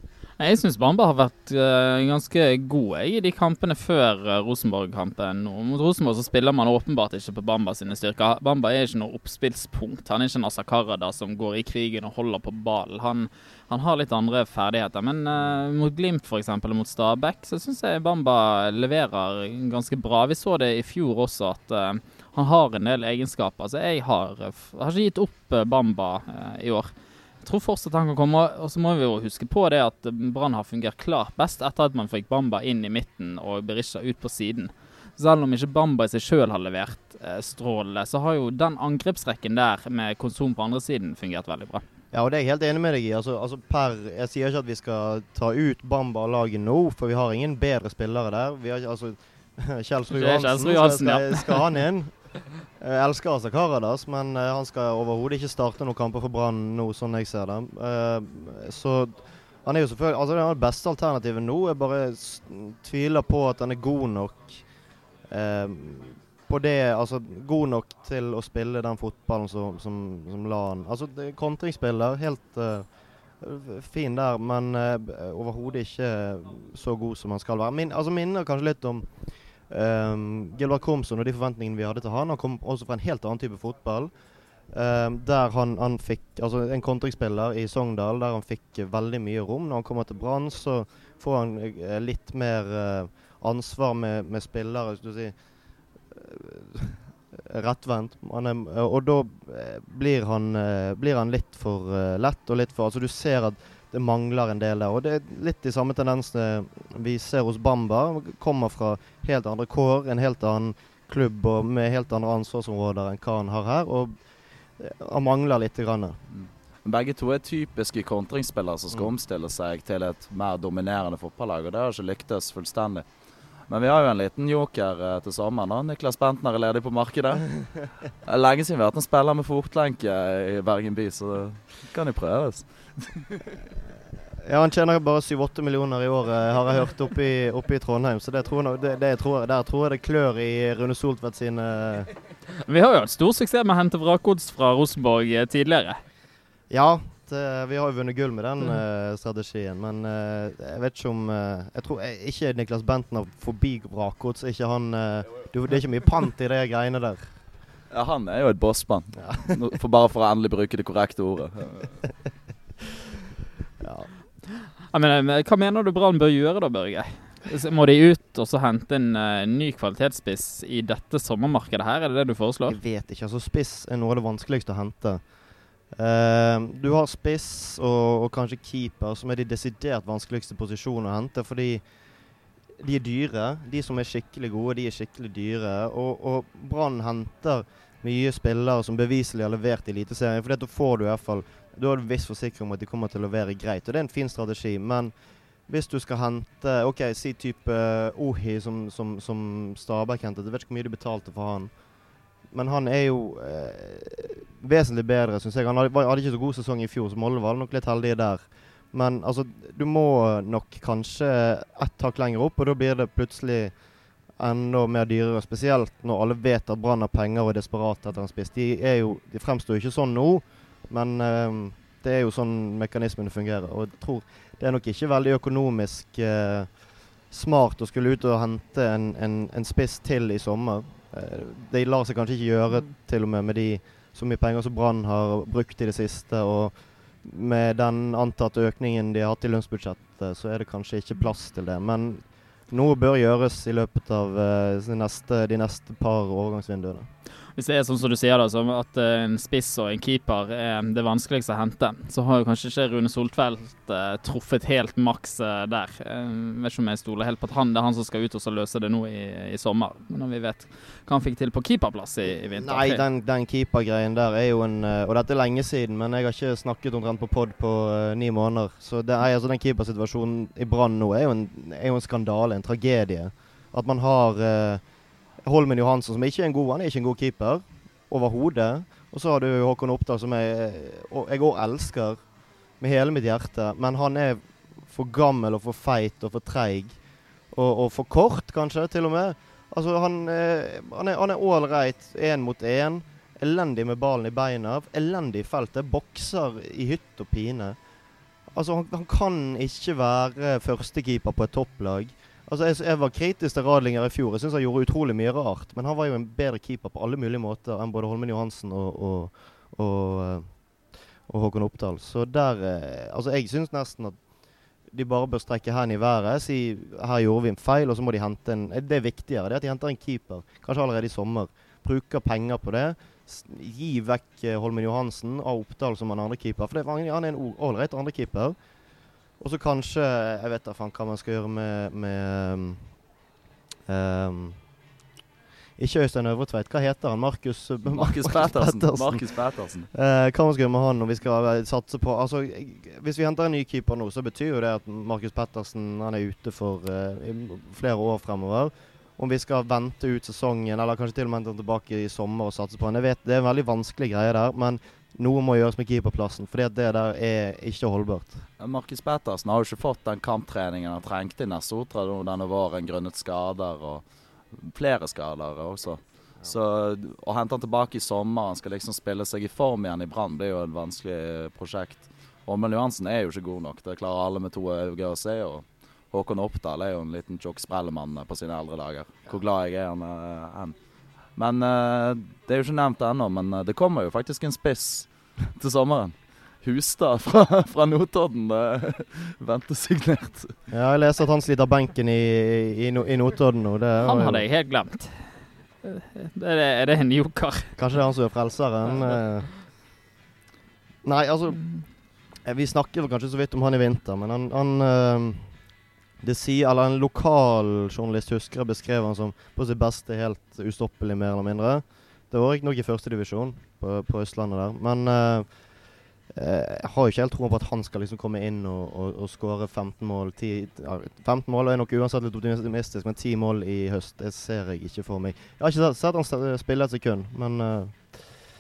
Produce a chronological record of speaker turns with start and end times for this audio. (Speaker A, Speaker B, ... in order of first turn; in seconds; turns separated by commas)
Speaker A: 0.4-41.8, Speaker B: 42.1-64.6, Speaker A: 50.1-51.6, Speaker B: 65.3-72.9, Speaker B: 73.4-79.1, Speaker B: 79.7-84.1, Speaker B: 84.7-95.3, Speaker B: 96.1-114.2, Speaker B: 114.8-116.2, Speaker C: 116.3-123.0, Speaker C: 123.7-133.2, Speaker B: 134.4-142.1, Speaker A: 142.7-146.0, Speaker B: 146.7-157.3, Speaker C: 157.9-162.0, Speaker B: 159.2-159.5, Speaker B: 163.8-164.1, Speaker A: 164.8-172.8, Speaker B: 172.7-175.2, Speaker B: 175.9-181.8, Speaker B: 182.8-195.1, Speaker B: 195.7-201.7, Speaker B: 202.5-213.7, Speaker B: 214.4-247.1, Speaker A: 247.6-263.0, Speaker B: 262.5-274.8, Speaker B: 275.4-282.2, Speaker B: 282.8-287.0, Speaker B: 287.5-297.8, Speaker B: 298.5-310.6, Speaker B: 311.3-314.2, Speaker B: 314.9-328.6, Speaker B: 329.4-332.9, Speaker B: 333.9-334.6, Speaker B: 335.8-339.3, Speaker C: 337.9-339.9, Speaker B: 339.9-358.4, Speaker C: 358.6-380.7, Speaker C: 381.4-390.6, Speaker B: 390.7-394.4, Speaker A: 394.0-397.8, Speaker B: 397.8-399.5, Speaker B: 401.0-401.7, Speaker B: 402.4-405.6, Speaker B: 406.2-415.6, Speaker B: 416.4-428.4